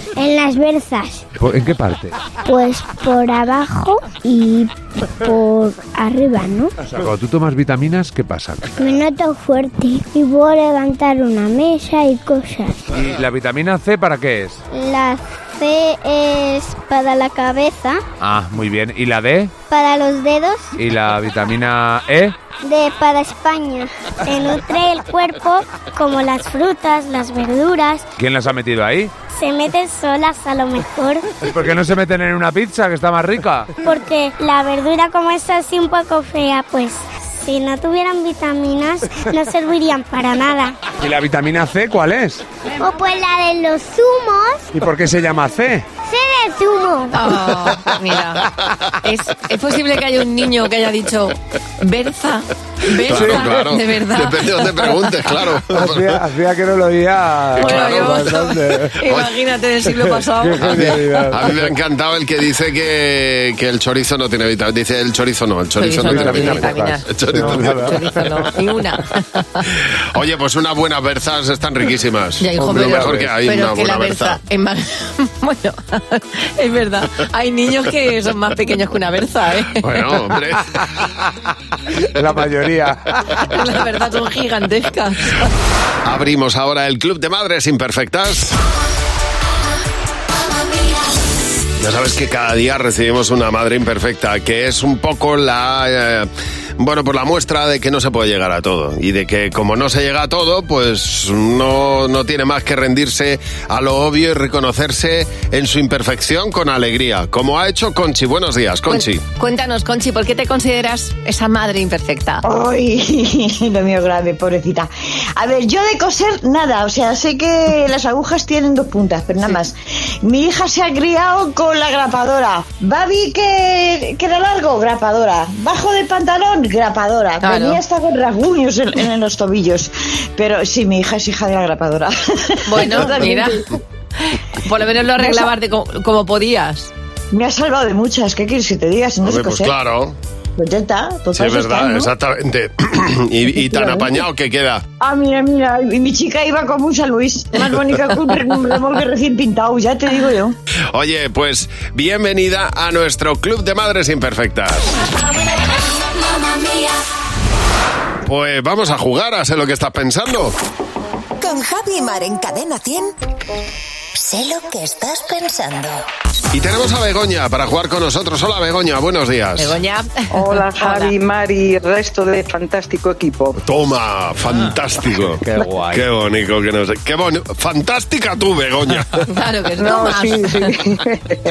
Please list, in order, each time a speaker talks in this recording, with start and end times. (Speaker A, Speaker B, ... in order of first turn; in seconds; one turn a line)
Speaker A: 0.2-1.2
Speaker B: 1.4-2.1
Speaker A: 2.4-6.7
Speaker B: 6.8-8.7
Speaker A: 8.8-12.8
Speaker B: 12.9-14.6
Speaker A: 14.7-18.0
Speaker B: 18.2-19.6
Speaker A: 19.7-20.7
Speaker B: 20.8-22.4
Speaker A: 22.6-28.1
Speaker B: 28.2-29.1
Speaker A: 29.3-31.3
Speaker B: 31.4-33.7
Speaker A: 33.8-40.8
Speaker B: 41.0-42.4
Speaker A: 42.8-44.7
Speaker B: 44.8-45.9
Speaker A: 46.1-47.2
Speaker C: 47.1-48.5
Speaker C: 49.0-55.1
Speaker D: 53.0-56.2
Speaker B: 53.1-53.4
Speaker B: 55.7-59.0
Speaker D: 57.6-58.4
Speaker C: 57.6-60.7
Speaker D: 59.1-59.3
Speaker B: 60.0-61.7
Speaker D: 60.6-67.9
Speaker C: 65.8-69.6
Speaker B: 66.0-68.5
Speaker D: 70.1-74.4
Speaker C: 72.4-79.8
Speaker D: 79.8-80.8
Speaker B: 82.2-83.2
Speaker C: 83.5-85.5
Speaker D: 86.0-88.6
Speaker D: 91.8-109.2
Speaker C: 108.9-112.4
Speaker E: 112.4-133.8
Speaker C: 127.4-127.8
Speaker C: 132.7-133.7
Speaker C: 134.2-136.9
Speaker E: 135.2-135.5
Speaker E: 137.3-139.7
Speaker D: 139.2-140.2
Speaker E: 140.6-142.1
Speaker D: 141.3-144.8
Speaker E: 143.6-144.1
Speaker E: 145.0-150.6
Speaker D: 150.9-154.9
Speaker D: 158.2-160.6
Speaker F: 161.4-162.9
Speaker F: 164.2-165.9
Speaker D: 166.5-169.8
Speaker C: 169.6-171.2
Speaker G: 170.3-173.6
Speaker D: 173.6-179.3
Speaker B: 175.4-176.1
Speaker C: 179.3-180.7
Speaker G: 179.8-181.2